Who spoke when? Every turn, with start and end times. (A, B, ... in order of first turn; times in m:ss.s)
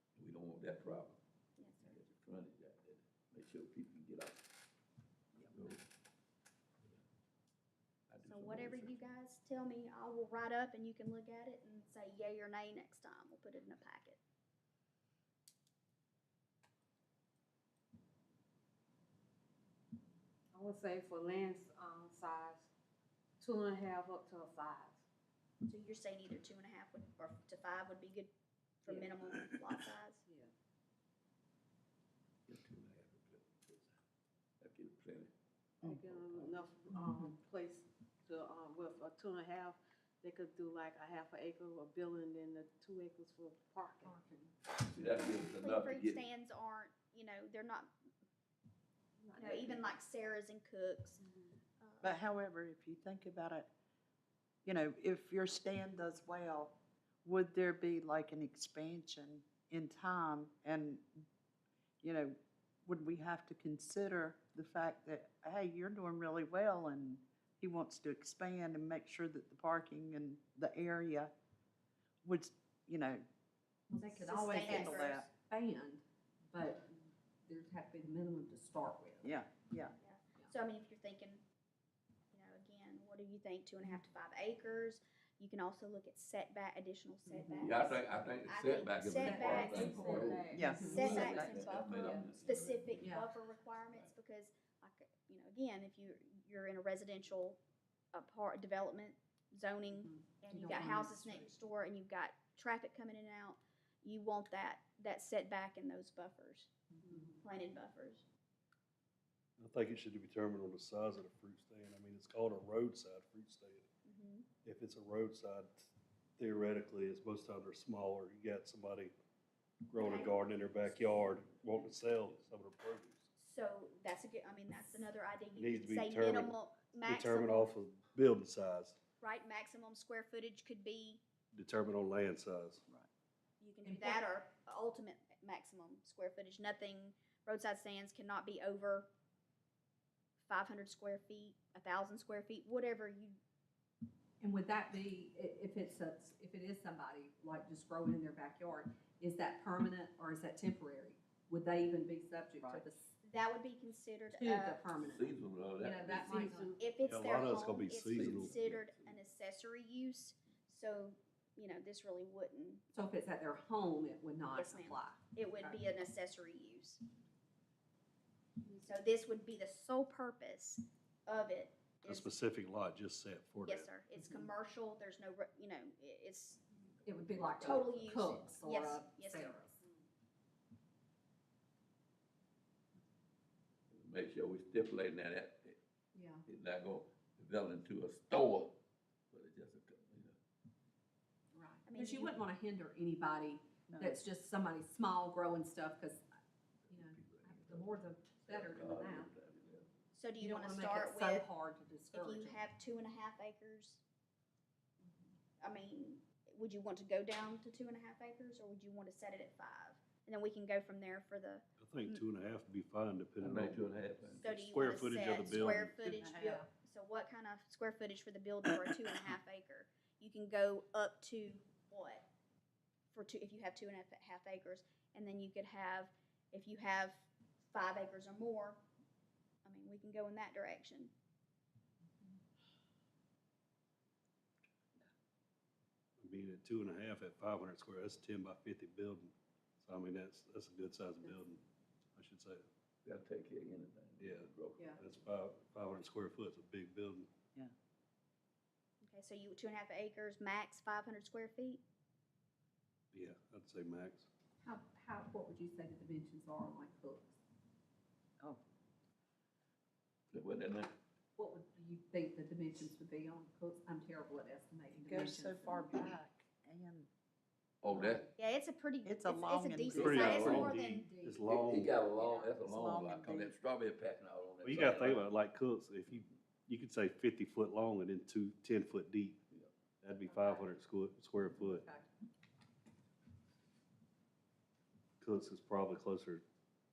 0:00.2-0:01.2 A
0:01.6-0:02.0 B
0:01.8-0:04.4 A
0:05.5-0:05.8 A
0:08.1-0:09.0 A
0:08.2-0:14.2 B
0:20.5-0:22.7 C
0:23.4-0:25.0 C
0:25.7-0:28.3 B
0:28.8-0:30.2 B
0:32.5-0:33.9 A
0:34.6-0:35.3 A
0:35.8-0:44.2 C
0:36.0-0:36.7 A
0:36.9-0:37.3 D
0:44.0-0:44.5 E
0:44.8-0:46.2 A
0:45.2-0:47.9 B
0:49.2-0:50.0 C
0:49.4-0:51.2 B
0:51.8-0:52.2 B
0:52.0-0:53.7 D
0:54.6-1:01.3 D
1:02.0-1:11.3 D
1:12.2-1:13.3 D
1:13.9-1:16.9 E
1:14.1-1:15.3 D
1:14.4-1:15.2 B
1:17.5-1:19.4 E
1:19.2-1:19.9 D
1:20.0-1:21.4 B
1:22.3-1:30.1 B
1:27.6-1:33.1 A
1:29.2-1:31.3 E
1:29.4-1:30.8 C
1:30.5-1:31.6 D
1:30.8-1:37.6 B
1:33.0-1:33.3 E
1:33.8-1:34.1 A
1:38.1-1:46.7 B
1:40.5-1:41.5 E
1:47.4-1:48.2 B
1:49.6-1:53.9 F
1:54.1-1:54.5 B
1:54.6-1:59.1 F
1:59.9-2:03.3 F
2:00.0-2:00.4 B
2:03.4-2:07.7 B
2:05.6-2:09.0 F
2:09.2-2:11.2 B
2:11.5-2:12.8 F
2:13.6-2:19.1 B
2:13.8-2:14.2 E
2:20.5-2:23.4 B
2:24.4-2:33.1 E
2:33.2-2:34.8 B
2:34.3-2:36.8 E
2:35.0-2:36.6 A
2:36.2-2:37.0 C
2:36.8-2:42.8 B
2:37.0-2:38.6 F
2:37.9-2:39.2 A
2:42.9-2:45.8 E
2:44.5-2:47.0 B
2:48.6-2:52.3 B
2:52.1-2:53.9 F
2:53.6-2:56.6 B
2:57.1-2:57.9 A
2:57.1-2:59.8 E
2:57.6-2:59.6 B
3:03.9-3:05.8 A
3:06.1-3:06.4 E
3:06.5-3:08.8 A
3:09.3-3:10.4 A
3:11.5-3:16.2 E
3:11.9-3:12.4 B
3:13.9-3:14.2 D
3:16.9-3:19.9 A
3:16.9-3:19.3 E
3:20.1-3:21.5 B
3:20.4-3:22.6 E
3:22.1-3:24.0 B
3:25.6-3:32.2 B
3:31.8-3:36.0 F
3:33.4-3:34.5 A
3:34.4-3:42.3 B
3:36.0-3:36.3 D
3:36.2-3:36.7 E
3:43.1-3:48.8 B
3:49.6-3:51.1 B
3:56.2-4:01.6 F
4:02.2-4:02.6 F
4:03.0-4:04.9 A
4:04.2-4:07.3 F
4:09.0-4:11.8 B
4:13.1-4:14.3 F
4:14.6-4:17.4 E
4:20.3-4:20.9 A
4:21.4-4:26.2 E
4:24.9-4:27.1 D
4:27.8-4:28.3 A
4:27.9-4:28.3 E
4:28.4-4:31.1 B
4:29.0-4:30.7 D
4:29.9-4:32.0 F
4:29.9-4:30.7 A
4:30.7-4:31.4 E
4:31.5-4:35.3 A
4:32.6-4:33.5 D
4:34.6-4:39.4 F
4:40.0-4:41.8 F
4:40.2-4:40.7 E
4:41.4-4:42.1 E
4:45.2-4:46.4 F